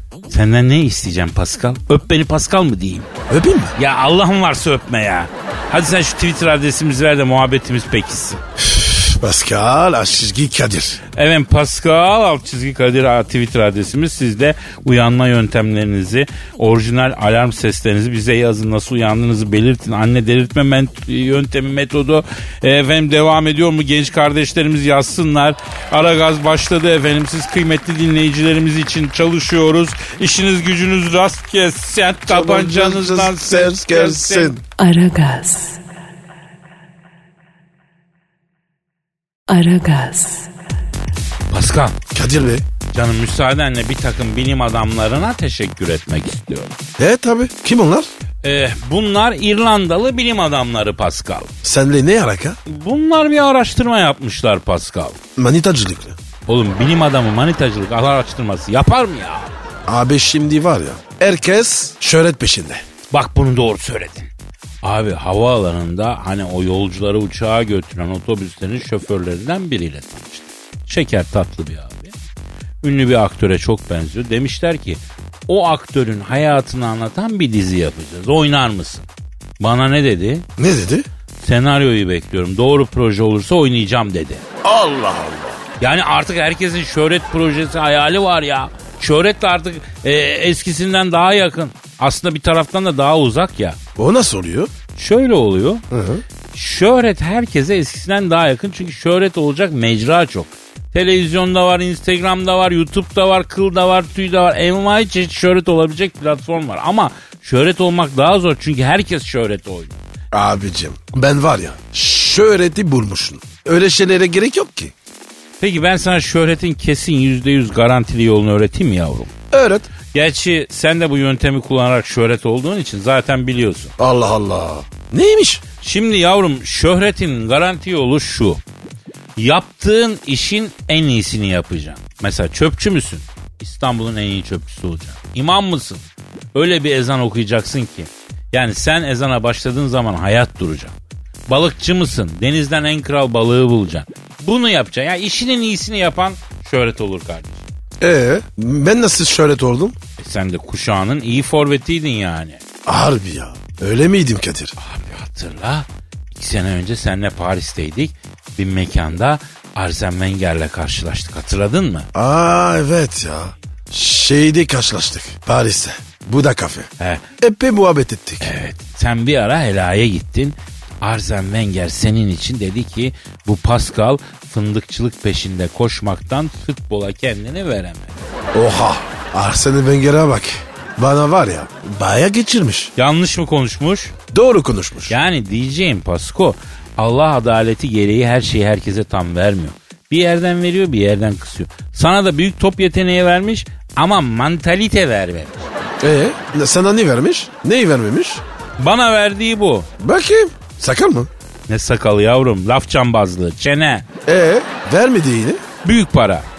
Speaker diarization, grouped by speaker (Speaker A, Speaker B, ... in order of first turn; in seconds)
Speaker A: 0.3-3.1, 3.8-8.4, 11.2-34.6, 41.5-42.0, 42.9-46.7, 48.4-51.5, 52.7-55.2, 56.5-59.5, 63.1-64.3, 64.8-72.1, 72.8-79.1, 79.6-80.5, 81.4-84.4, 85.8-93.8, 95.0-95.8, 96.5-110.0, 115.6-119.3, 120.1-123.9, 125.8-128.6, 129.4-136.0, 136.5-140.9, 141.5-147.6, 150.2-152.6, 154.8-162.1, 168.4-178.1, 182.9-184.1, 185.1-195.7, 198.8-199.9, 201.7-204.1, 205.8-206.4
Speaker B: 3.3-3.7, 8.6-11.0, 32.3-34.6, 42.1-42.6, 47.0-48.1, 51.6-52.6, 55.4-56.2, 59.9-62.8, 80.6-81.1, 84.6-85.6, 94.0-94.7, 95.9-96.2, 110.3-114.9, 119.5-119.9, 124.0-125.6, 148.0-150.0, 152.9-154.8, 162.1-166.9, 167.4-168.5, 178.5-182.9, 184.3-185.1, 196.0-198.4, 200.0-201.3, 204.2-205.6
Speaker C: 34.8-35.8, 39.5-40.5